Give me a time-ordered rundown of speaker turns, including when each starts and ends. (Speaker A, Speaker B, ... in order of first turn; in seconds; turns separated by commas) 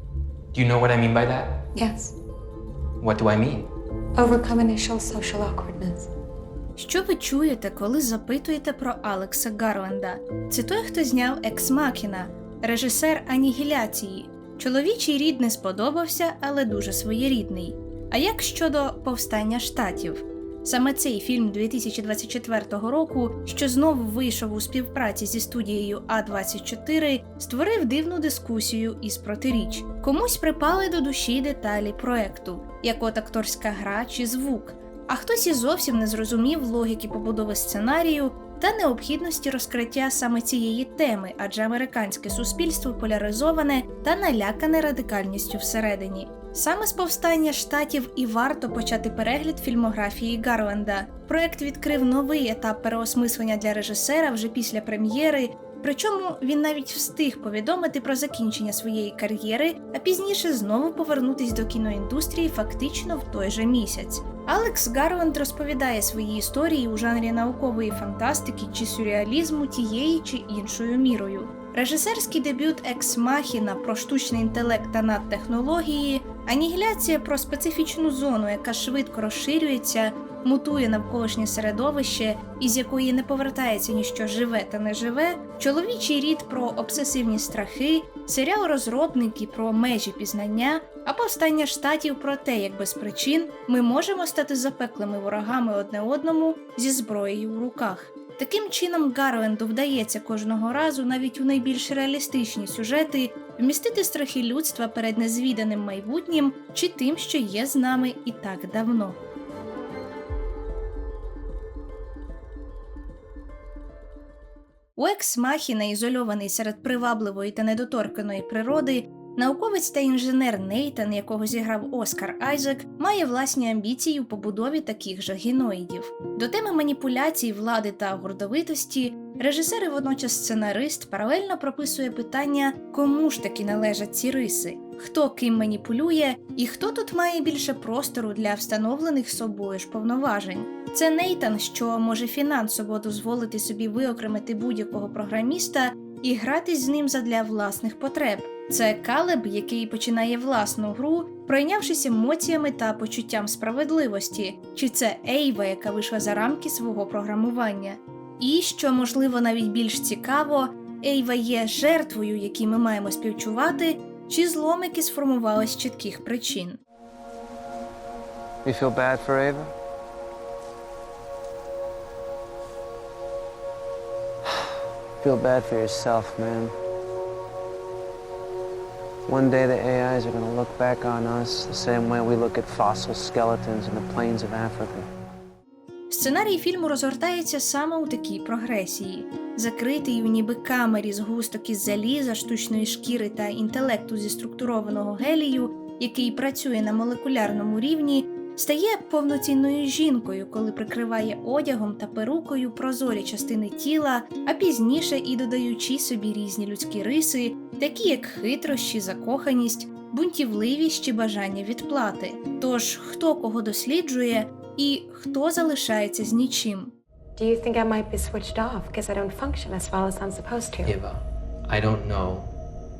Speaker A: 0.5-1.6, Speaker B: 1.7-2.1, Speaker A: 3.0-3.7, Speaker B: 4.2-6.1, Speaker C: 6.8-109.2, Speaker C: 115.0-166.8, Speaker D: 168.7-169.7, Speaker D: 175.2-176.8, Speaker D: 179.3-185.1, Speaker C: 186.1-216.9, Speaker B: 217.4-221.0, Speaker A: 220.8-222.5